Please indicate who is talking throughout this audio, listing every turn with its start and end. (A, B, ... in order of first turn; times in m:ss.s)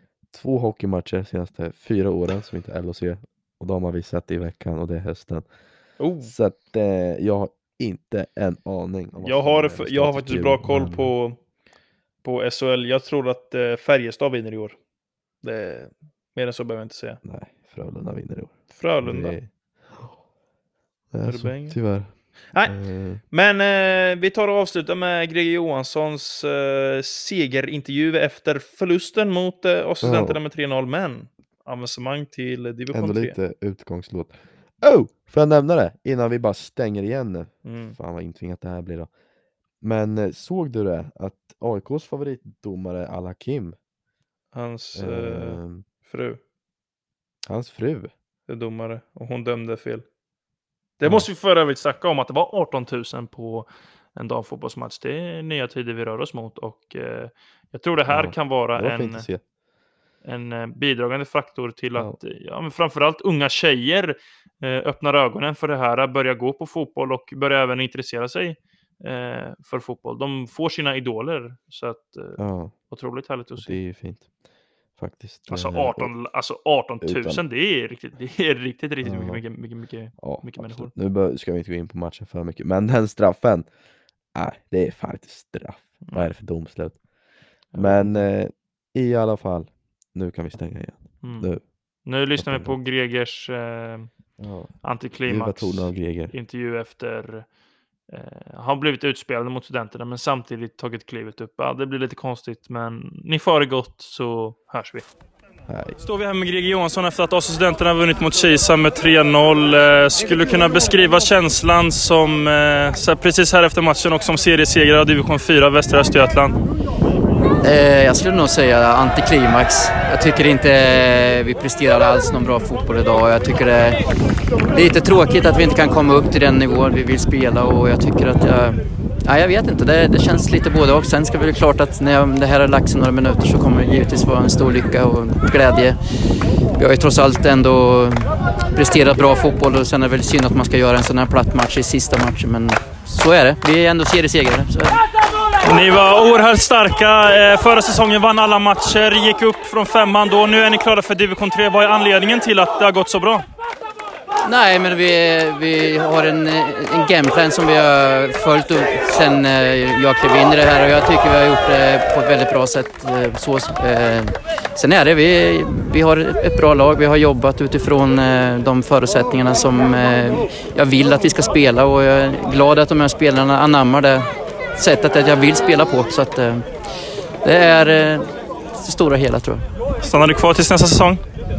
0:00.3-0:05.5 A
0:06.0-0:06.3 B
0:06.2-0:11.1 A
0:09.2-0:11.4 B
0:12.2-0:14.8 B
0:15.4-0:17.2 B
0:17.2-0:20.2 A
0:18.7-0:19.4 B
0:21.1-0:23.2 A
0:21.2-0:21.8 B
0:22.5-0:33.4 B
0:30.0-0:30.4 A
0:32.9-0:39.1 A
0:37.6-0:38.0 B
0:39.8-0:43.8 A
0:44.5-0:46.4 B
0:44.9-0:45.8 A
0:47.4-0:48.1 A
0:48.5-0:50.0 B
0:51.0-0:59.3 B
0:58.1-0:59.4 A
1:00.2-1:13.8 B
1:12.4-1:12.7 A
1:13.6-1:14.3 A
1:14.9-1:16.1 A
1:15.5-1:20.9 B
1:17.0-1:17.4 A
1:19.0-1:19.4 A
1:20.2-1:23.7 A
1:24.3-1:27.1 A
1:27.6-1:31.7 A
1:27.7-1:28.2 B
1:31.2-1:34.1 B
1:32.3-1:32.8 A
1:34.4-1:36.3 A
1:34.8-1:37.5 B
1:38.1-1:45.0 B
1:45.7-1:46.0 A
1:46.0-1:56.6 B
1:57.6-2:04.0 C
2:04.7-2:16.0 C
2:16.8-2:25.0 C
2:25.6-2:33.4 B
2:34.4-2:56.7 C
2:57.4-2:59.6 C
3:00.0-3:01.2 B